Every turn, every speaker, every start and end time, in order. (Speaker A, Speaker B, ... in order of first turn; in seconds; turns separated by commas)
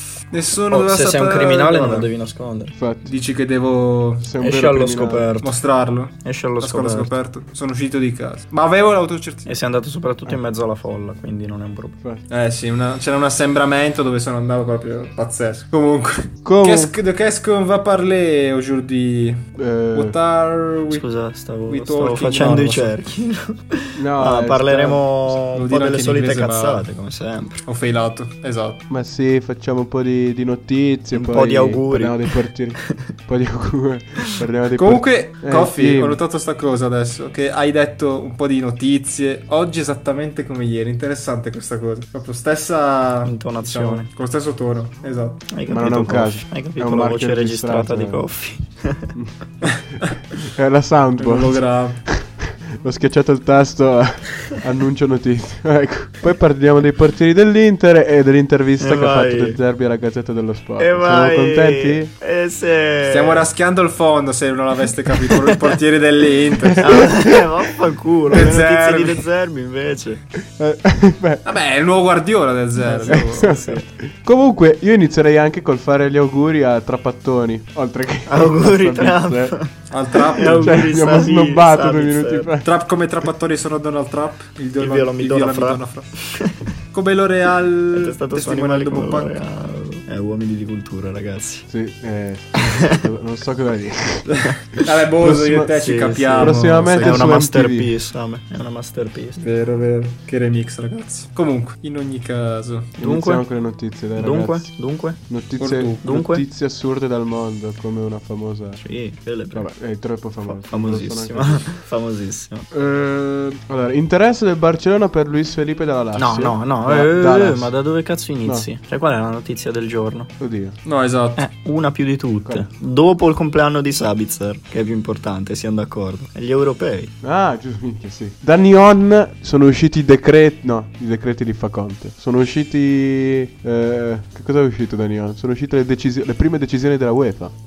Speaker A: 0.3-2.1, Speaker B: 0.7-2.7, Speaker C: 2.8-3.1, Speaker A: 3.0-4.3, Speaker C: 4.2-5.3, Speaker B: 4.4-5.5, Speaker A: 5.4-9.5, Speaker B: 6.2-7.1, Speaker B: 9.4-12.0, Speaker A: 12.3-19.4, Speaker C: 16.4-16.9, Speaker C: 19.6-20.1, Speaker A: 19.9-21.1, Speaker B: 20.9-27.6, Speaker A: 21.7-23.0, Speaker C: 23.9-25.0, Speaker A: 25.5-26.8, Speaker A: 27.6-28.8, Speaker C: 28.9-36.2, Speaker B: 31.1-32.3, Speaker A: 34.8-45.5, Speaker B: 43.2-44.1, Speaker B: 45.5-49.1, Speaker C: 45.7-48.2, Speaker A: 49.6-50.1, Speaker C: 50.5-62.1, Speaker A: 51.2-52.0, Speaker B: 58.8-59.6, Speaker B: 60.8-63.5, Speaker A: 63.0-67.1, Speaker C: 66.7-67.3, Speaker B: 66.8-70.2, Speaker A: 68.3-69.2, Speaker C: 70.4-71.4, Speaker A: 71.4-73.6, Speaker B: 72.8-73.9, Speaker C: 73.1-79.6, Speaker B: 78.3-82.5, Speaker A: 79.9-80.9, Speaker C: 80.6-82.7, Speaker A: 82.6-86.1, Speaker B: 84.8-86.7, Speaker A: 86.9-89.3, Speaker B: 87.9-91.6, Speaker C: 91.7-95.7, Speaker A: 94.7-97.3, Speaker B: 95.8-99.4, Speaker C: 96.4-97.9, Speaker A: 99.4-103.0, Speaker B: 103.0-103.4, Speaker C: 103.0-104.7, Speaker B: 104.2-105.2, Speaker C: 105.3-108.8, Speaker A: 105.6-106.0, Speaker B: 106.0-106.4, Speaker B: 108.8-109.7, Speaker C: 109.5-111.7, Speaker B: 110.5-112.6, Speaker C: 112.7-117.7, Speaker B: 116.1-120.3, Speaker C: 120.4-120.8, Speaker A: 120.8-121.4, Speaker B: 121.4-127.1, Speaker C: 127.2-137.5